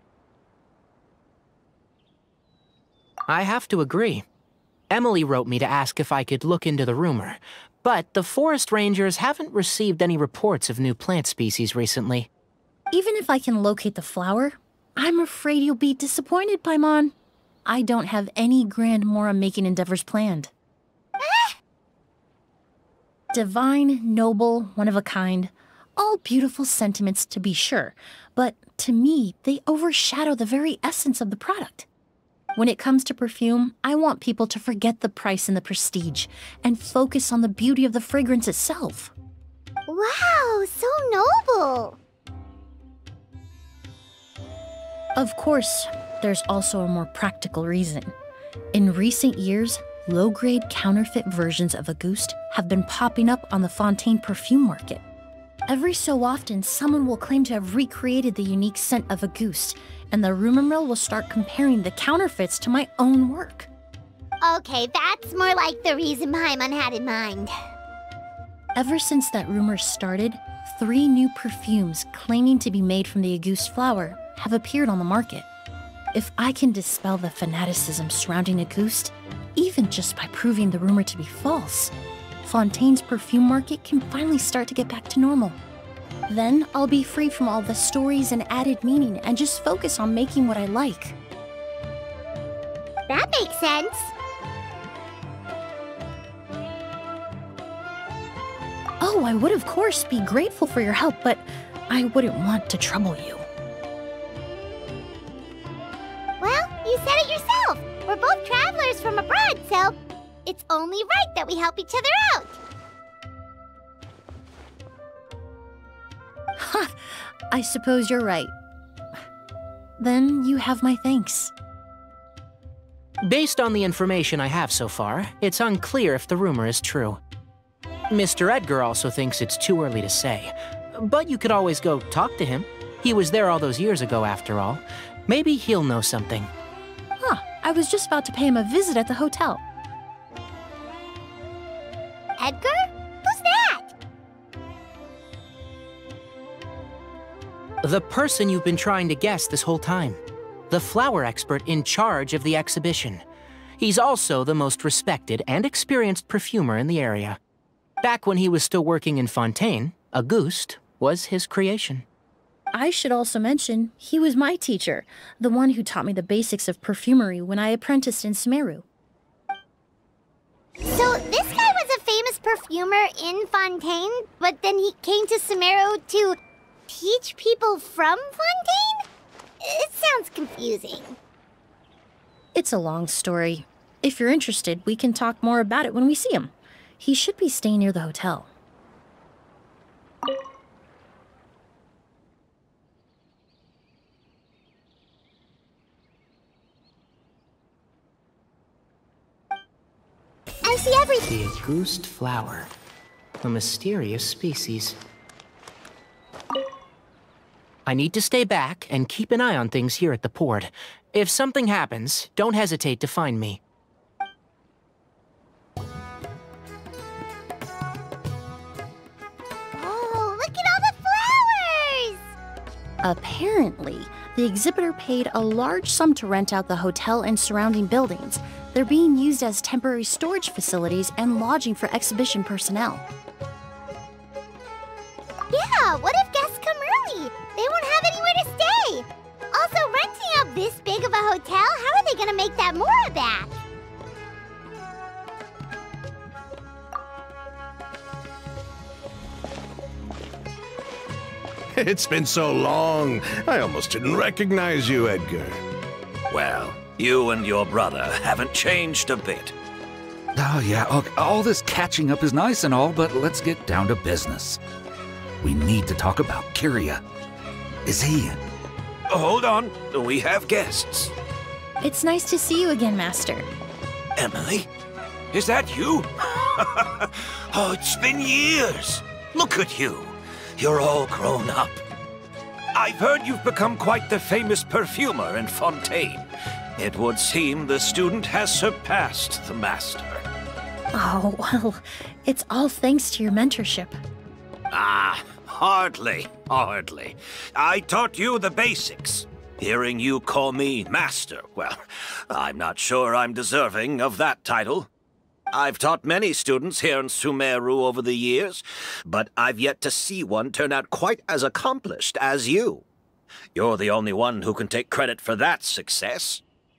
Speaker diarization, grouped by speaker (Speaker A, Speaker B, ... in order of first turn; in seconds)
Speaker A: 3.3-4.2, 4.9-12.3, 123.2-127.2, 128.1-136.5, 147.8-153.2, 153.8-157.4, 158.0-162.1, 201.3-202.7, 203.4-205.0, 207.8-213.6
Speaker B: 12.9-20.5, 23.3-31.9, 32.5-39.1, 45.1-48.1, 48.7-55.0, 55.7-63.7, 68.7-75.5, 76.1-85.6, 86.3-91.2, 99.0-103.5, 116.5-118.5, 120.0-121.5, 137.2-139.6, 162.7-168.8, 182.5-188.5, 223.0-233.0, 271.8-273.5, 290.9-294.0
Speaker C: 21.2-21.5, 39.9-42.0, 64.4-67.5, 93.1-94.1, 106.4-112.6, 142.4-143.9, 170.8-176.4, 176.9-179.1, 179.6-181.2, 200.6-201.3, 219.7-222.3, 235.5-243.5
Speaker D: 251.8-255.6
Speaker E: 256.3-259.5, 269.1-271.1, 274.1-274.7, 275.3-281.8, 282.7-286.2, 286.8-290.2, 294.7-301.8, 302.3-304.9, 305.5-312.8, 313.5-316.4
Speaker F: 260.4-264.6, 265.4-267.0, 267.8-268.4